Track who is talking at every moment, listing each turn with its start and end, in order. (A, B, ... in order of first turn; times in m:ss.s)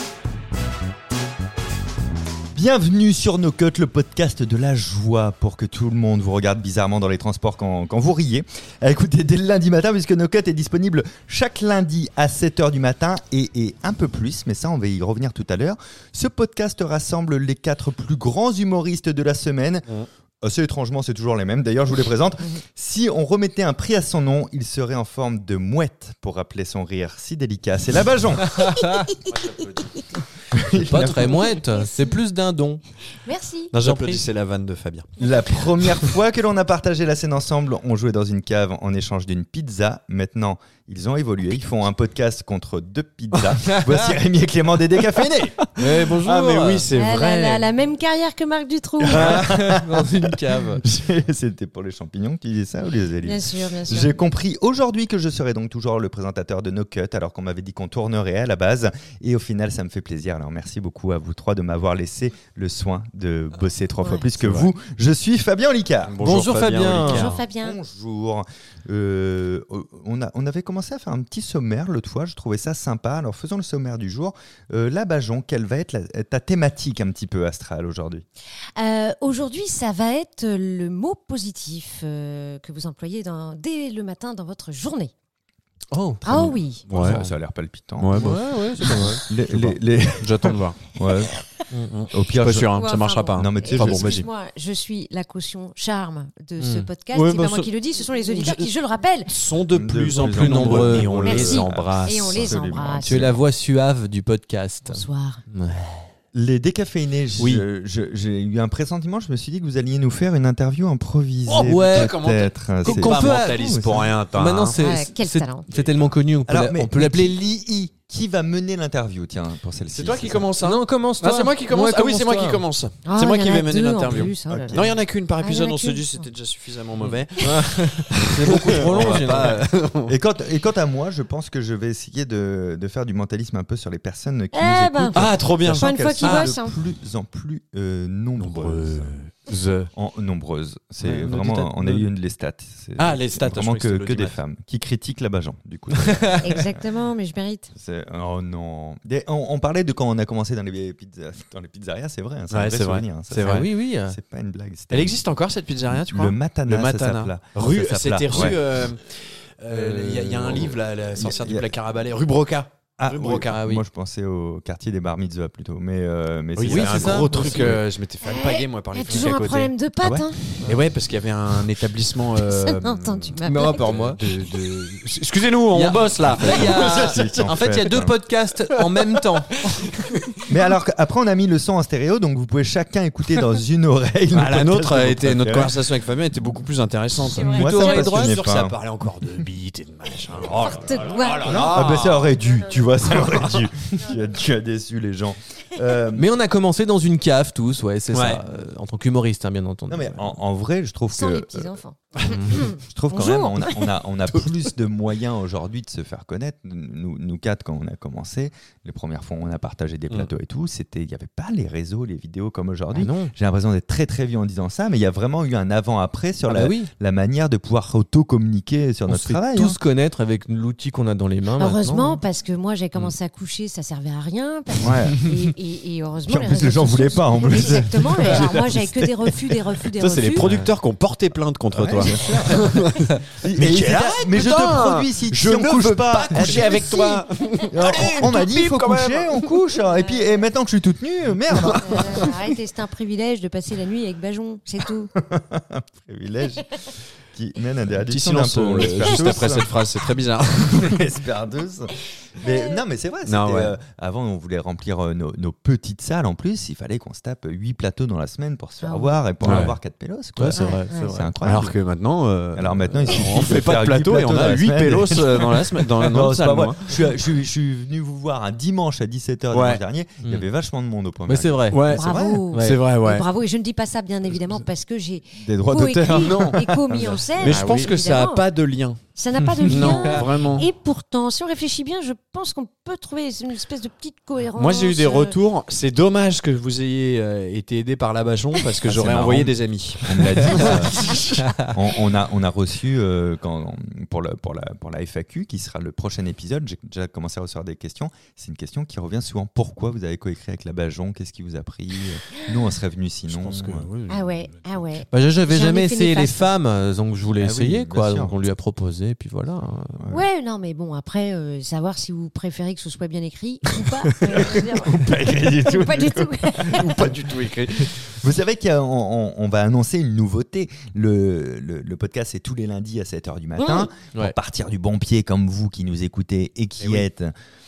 0:02.5-0:19.9 A
0:20.4-0:28.6 A
0:28.5-0:29.1 B
0:28.8-0:29.1 C
0:29.2-0:29.8 D
0:29.8-0:30.0 C
0:30.5-0:31.5 A
0:30.7-0:32.8 B
0:31.5-0:32.1 C
0:33.2-0:33.7 C
0:33.7-0:35.1 D
0:33.8-0:34.2 B
0:35.2-0:45.7 A
0:43.7-0:44.1 B
0:45.8-0:46.9 B
0:46.2-0:47.6 D
0:46.9-0:49.2 C
0:49.0-1:06.3 A
0:49.1-0:50.8 B
0:53.2-0:54.2 C
1:04.4-1:04.7 D
1:06.0-1:07.3 D
1:06.2-1:07.3 B
1:07.0-1:07.8 C
1:07.3-1:18.2 A
1:18.8-1:25.1 C
1:25.9-1:26.2 B
1:26.2-1:26.8 C
1:26.2-1:28.2 A
1:26.9-1:27.2 D
1:28.0-1:30.8 D
1:28.1-1:29.2 B
1:28.8-1:31.4 A
1:31.7-1:32.0 B
1:31.9-1:34.3 D
1:32.1-1:32.8 A
1:32.7-1:39.3 C
1:33.3-1:34.2 A
1:36.6-1:36.9 B
1:37.1-1:38.7 D
1:39.3-1:42.5 D
1:39.7-1:43.4 A
1:40.2-1:41.6 B
1:41.2-1:43.3 C
1:43.0-1:46.0 B
1:44.8-1:45.4 C
1:46.3-1:54.1 A
1:47.4-1:47.6 D
1:51.5-1:54.8 D
1:51.6-1:52.2 B
1:52.8-1:57.4 B
1:54.8-1:55.6 C
1:56.5-2:00.5 A
1:59.9-2:10.1 D
2:00.6-2:02.6 B
2:03.0-2:06.2 C
2:04.5-2:05.0 A
2:07.0-2:09.6 B
2:08.9-2:19.2 A
2:14.5-2:16.8 C
2:15.1-2:16.5 D
2:18.4-2:19.9 D
2:19.9-2:26.8 A
2:21.0-2:22.0 D
2:23.0-2:24.4 D
2:25.9-2:26.3 B
2:26.4-2:27.7 C
2:27.7-2:35.2 A
2:32.5-2:33.7 D
2:33.4-2:34.2 B
2:34.9-2:43.7 D
2:35.9-2:38.6 A
2:39.7-2:40.7 B
2:40.5-2:41.7 A
2:43.0-2:47.8 A
2:43.4-2:43.8 B
2:46.5-2:49.7 D
2:46.6-2:47.8 B
2:48.2-2:50.4 C
2:49.0-2:49.3 B
2:50.0-2:50.3 A
2:50.6-2:50.9 B
2:50.7-2:57.7 D
2:52.4-2:53.8 C
2:53.4-2:54.2 B
2:55.7-2:59.8 B
2:56.3-2:58.2 A
2:59.8-3:00.4 D
3:00.5-3:06.0 A
3:04.3-3:12.4 D
3:07.2-3:08.4 B
3:07.3-3:07.7 C
3:07.3-3:08.8 A
3:10.6-3:11.9 C
3:11.4-3:16.3 A
3:13.0-3:13.6 D
3:16.1-3:20.4 B
3:18.1-3:18.4 D
3:19.9-3:21.8 A
3:21.1-3:23.9 C
3:22.3-3:22.6 B
3:22.5-3:39.8 A
3:32.9-3:33.3 B
3:36.5-3:36.9 B
3:39.1-3:42.2 B
3:41.6-3:50.5 C
3:44.8-3:45.3 A
3:46.3-3:48.9 A
3:49.9-3:59.5 D
3:50.4-3:50.7 B
3:51.7-3:52.9 A
3:53.4-3:57.1 A
3:56.9-3:57.6 C
3:57.7-4:02.4 A
3:59.9-4:00.4 C
4:01.6-4:02.0 D
4:01.8-4:05.1 C
4:05.1-4:09.7 A
4:08.1-4:11.0 D
4:10.7-4:21.7 A
4:12.4-4:12.8 C
4:13.2-4:13.7 D
4:18.8-4:19.2 C
4:19.4-4:19.7 B
4:19.4-4:19.7 D
4:20.4-4:21.3 B
4:20.5-4:21.1 C
4:21.4-4:26.9 D
4:22.5-4:32.4 A
4:29.5-4:29.8 D
4:31.3-4:31.8 B
4:31.7-4:33.2 D
4:31.9-4:38.4 C
4:32.5-4:32.8 B
4:35.4-4:37.2 A
4:36.1-4:39.0 D
4:37.4-4:37.9 B
4:39.1-4:45.4 C
4:39.6-4:40.2 B
4:39.6-4:40.7 D
4:44.5-4:51.5 D
4:48.8-5:03.9 A
5:03.3-5:04.8 D
5:04.1-5:06.4 C
5:05.1-5:10.0 B
5:07.4-5:08.3 A
5:10.0-5:10.2 A
5:10.1-5:17.1 C
5:14.3-5:17.1 A
5:16.6-5:17.9 D
5:17.8-5:27.3 A
5:23.6-5:23.9 C
5:26.8-5:27.1 D